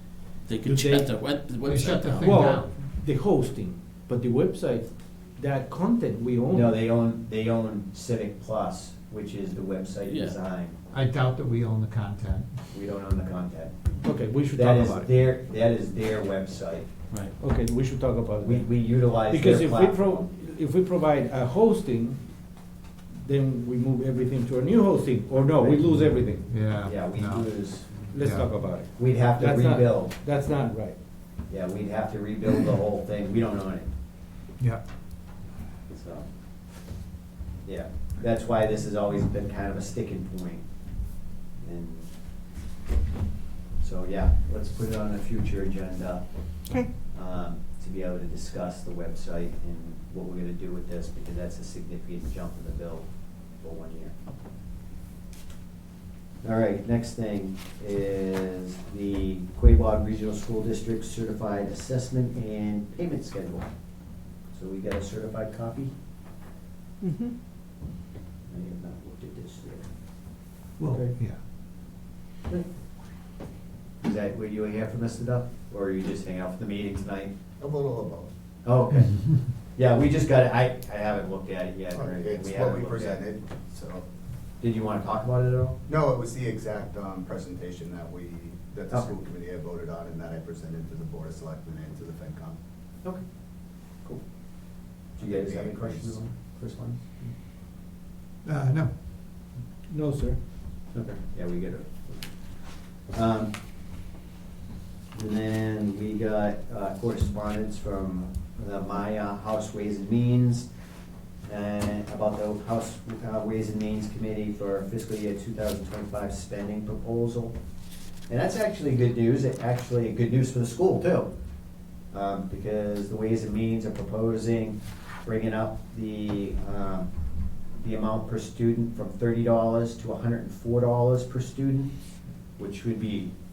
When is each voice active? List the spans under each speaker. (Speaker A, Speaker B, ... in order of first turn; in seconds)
Speaker A: 0.4-2.5, 10.1-10.4
Speaker B: 0.6-1.1, 2.2-6.8, 14.0-15.1, 17.4-22.2, 23.1-26.5, 28.1-31.0, 70.9-71.1, 99.9-100.4
Speaker C: 1.6-2.9, 10.9-12.5, 26.3-27.5, 28.1-28.6, 70.8-71.4, 98.4-98.9
Speaker D: 6.5-10.8, 12.7-13.7, 14.5-16.9, 18.4-20.3, 25.6-25.9, 26.8-28.1, 28.9-30.1, 31.5-33.9, 35.9-36.2, 37.6-40.6, 41.6-42.1, 43.8-54.1, 56.4-63.7, 64.5-65.9, 68.5-69.9, 74.0-77.3, 78.6-84.0, 84.6-85.8, 88.9-89.2, 93.0-94.2, 95.2-97.3, 100.9-103.5, 105.1-110.7, 111.5-117.5, 118.3-121.3, 122.1-127.1, 127.8-131.9, 132.6-133.3
Speaker E: 77.6-78.3, 81.9-83.5, 85.9-92.6, 95.2-96.2